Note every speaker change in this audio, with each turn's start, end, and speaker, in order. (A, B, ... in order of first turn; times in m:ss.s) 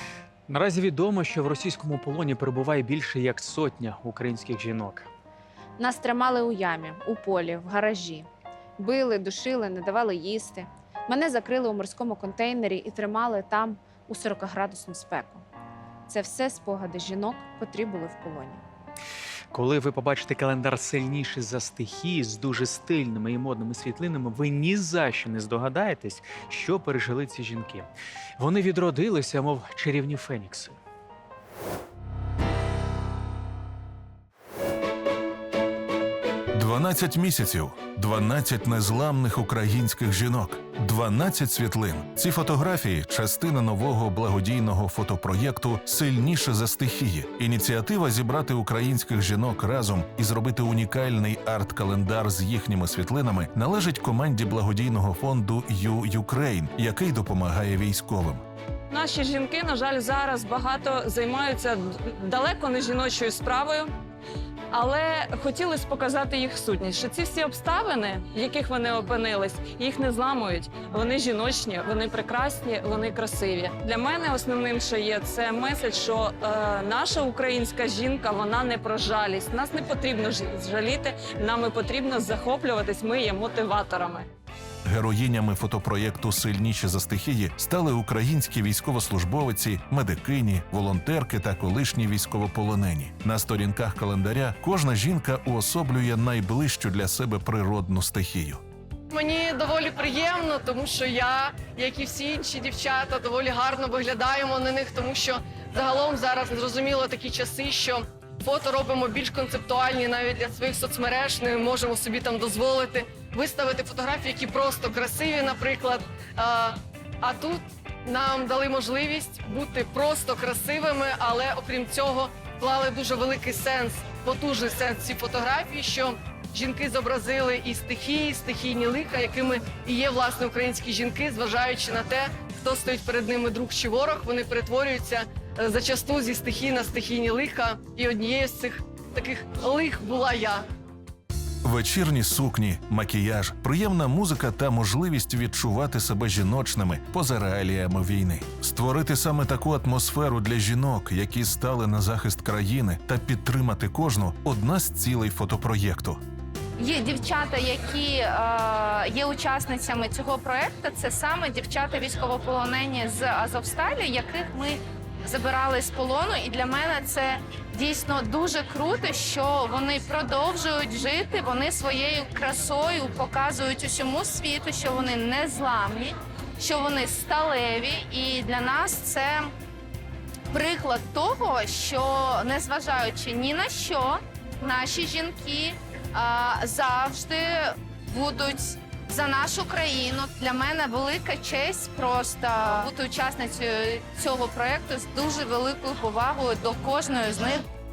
0:00.5-0:05.1 A
0:05.8-0:08.3 B
0:08.8-0:15.4 B
0:16.1-0:18.6 B
0:19.5-0:30.8 A
0:36.5-0:58.4 C
0:58.9-1:03.9 D
1:04.7-1:24.3 D
1:24.8-1:38.6 C
1:39.1-2:20.6 E
2:21.6-2:36.2 C
2:36.8-2:59.5 F
3:00.5-3:17.6 F